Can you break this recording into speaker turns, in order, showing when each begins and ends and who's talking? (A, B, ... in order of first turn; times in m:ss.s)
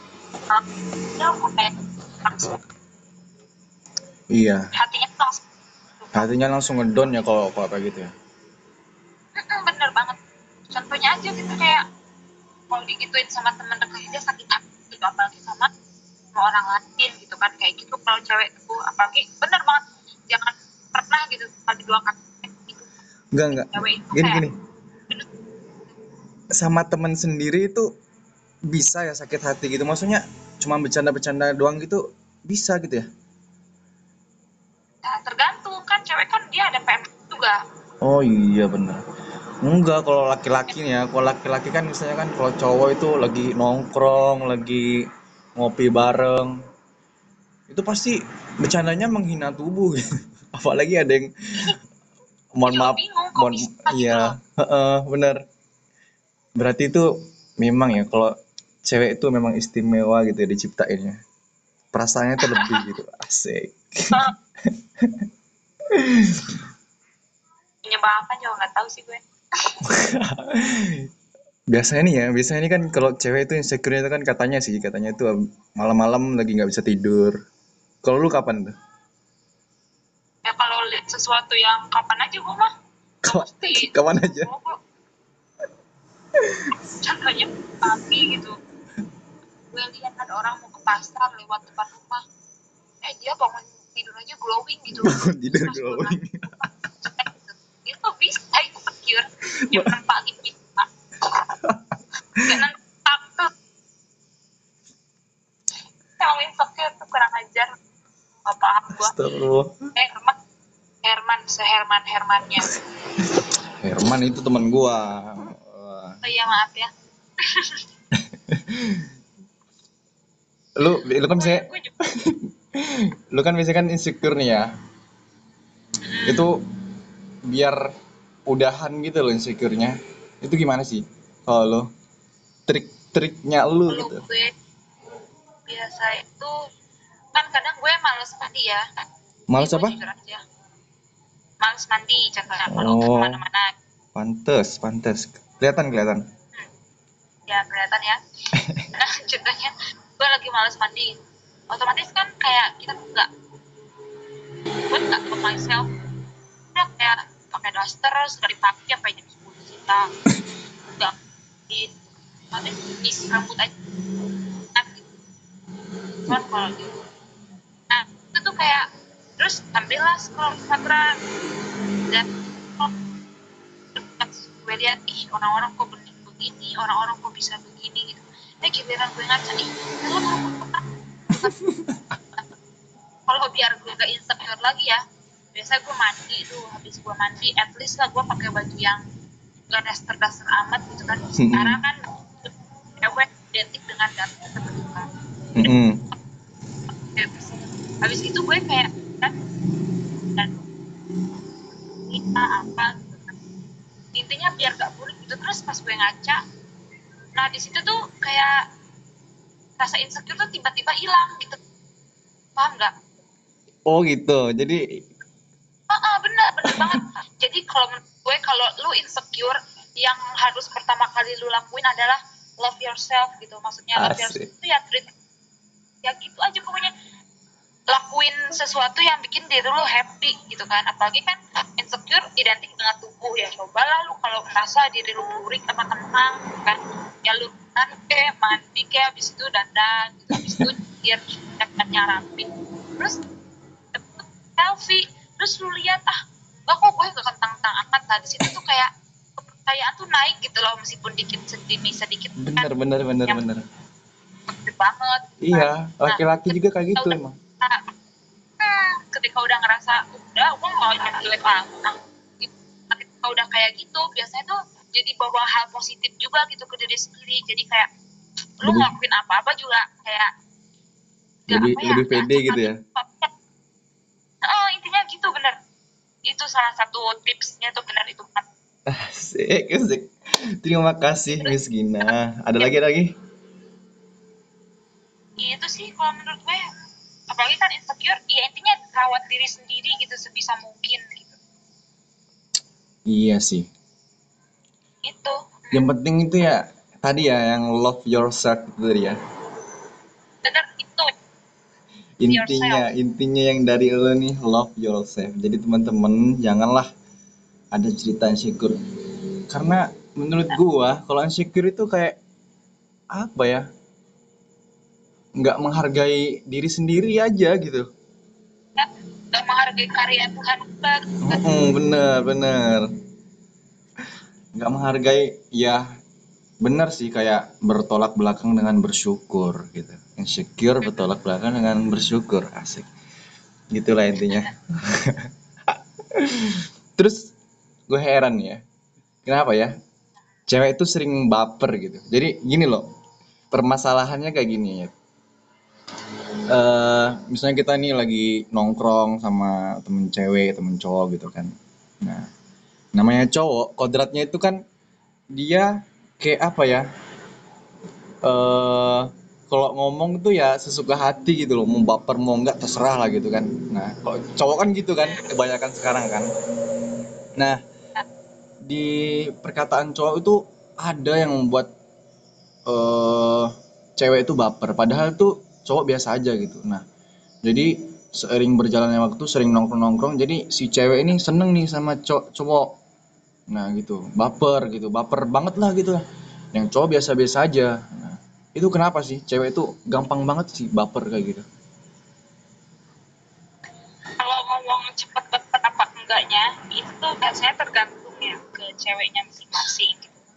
0:00.5-0:02.5 A
0:04.3-0:04.7 B
0:04.7-0:05.4 A
0:06.0-0:06.3 A
0:06.1-0:08.1 B
0:09.3-0:10.2 A
0:10.7-0:11.8 A
0:12.7-0:15.7 A
0:16.3-0:22.8 A
0:23.3-0:24.6 B
0:23.5-0:24.4 A
0:26.6-0:27.9 B
0:28.7-0:33.1 B
0:35.0-0:37.6 A
0:38.0-0:39.0 B
0:39.6-0:45.0 B
0:45.6-0:46.5 B
0:47.7-0:50.0 B
0:50.5-0:51.7 B
0:52.6-0:55.4 B
0:52.6-0:54.4 A
0:56.6-0:57.1 B
0:57.6-0:58.3 B
0:58.8-1:01.2 B
1:01.9-1:05.2 B
1:02.4-1:02.8 A
1:05.9-1:06.6 B
1:07.8-1:09.8 A
1:09.8-1:11.1 B
1:11.7-1:17.4 B
1:18.0-1:18.7 B
1:20.4-1:22.7 A
1:23.2-1:24.8 A
1:23.2-1:24.5 B
1:26.4-1:26.7 B
1:27.0-1:28.6 A
1:29.7-1:32.2 A
1:33.0-1:41.3 A
1:35.0-1:36.6 B
1:39.6-1:39.9 B
1:41.5-1:42.5 B
1:42.4-1:43.5 A
1:46.2-1:47.7 A
1:48.4-1:49.2 A
1:48.9-1:49.7 B
1:49.9-1:50.4 A
1:51.0-1:52.7 A
1:53.2-1:56.2 B
1:56.2-1:56.9 A
1:57.4-1:57.8 A
1:58.1-1:59.1 B
2:00.8-2:04.7 B
2:00.9-2:01.9 A
2:06.1-2:06.4 A
2:06.2-2:06.6 B
2:07.5-2:07.8 B
2:08.5-2:11.9 B
2:12.7-2:14.2 B
2:13.9-2:14.5 A
2:15.7-2:16.5 A
2:17.3-2:18.8 A
2:19.5-2:20.0 B
2:19.6-2:20.4 A
2:21.6-2:23.7 A
2:22.7-2:23.4 B
2:24.1-2:26.2 B
2:27.5-2:28.2 A
2:28.6-2:28.9 B
2:29.0-2:31.1 A
2:31.7-2:33.3 A
2:34.9-2:35.9 A
2:36.7-2:40.1 A
2:41.7-2:43.7 A
2:44.7-2:45.0 A
2:46.2-2:46.9 A
2:47.9-2:48.8 A
2:49.4-2:51.1 A
2:52.1-2:52.9 A
2:53.9-3:01.5 A
3:01.4-3:02.0 B
3:03.3-3:05.0 A
3:05.5-3:09.0 A
3:09.7-3:15.1 A
3:11.4-3:11.8 B
3:15.6-3:16.0 B
3:17.1-3:19.4 A
3:20.3-3:20.6 A
3:22.0-3:23.3 A
3:24.2-3:26.4 A
3:27.4-3:28.5 A
3:29.8-3:31.6 A
3:32.6-3:32.9 A
3:33.9-3:34.8 B
3:35.9-3:45.1 A
3:36.6-3:37.0 B
3:44.0-3:44.5 B
3:46.0-3:46.9 A
3:47.9-4:02.5 A
4:00.3-4:00.7 B
4:03.9-4:12.7 A
4:12.4-4:13.6 B
4:14.5-4:17.8 A
4:15.4-4:17.4 B
4:18.6-4:27.9 A
4:28.6-4:30.3 A
4:28.6-4:28.9 B
4:31.5-4:33.3 A
4:31.5-4:32.8 B
4:34.4-4:35.6 A
4:36.2-4:38.4 A
4:38.9-4:40.1 B
4:40.6-4:43.1 B
4:45.4-4:46.6 A
4:47.3-4:51.4 A
4:53.1-4:53.7 B
4:55.0-4:55.8 A
4:55.7-4:59.2 B
5:00.4-5:01.1 A
5:02.2-5:06.9 B
5:02.3-5:02.9 A
5:07.7-5:08.8 B
5:09.5-5:12.2 B
5:13.1-5:13.6 B
5:15.4-5:17.9 B
5:18.8-5:21.4 A
5:21.2-5:22.9 B
5:24.6-5:25.8 B
5:26.6-5:32.9 B
5:33.7-5:37.3 B
5:37.9-5:38.6 B
5:39.2-5:39.7 B
5:40.5-5:42.8 B
5:43.5-5:44.9 B
5:46.5-5:52.3 B
5:53.0-5:54.6 B
5:55.4-5:56.8 B
5:58.2-6:06.3 B
6:08.6-6:11.7 B
6:12.7-6:16.8 B
6:17.4-6:22.7 B
6:23.5-6:26.0 B
6:26.5-6:31.4 B
6:34.2-6:40.2 A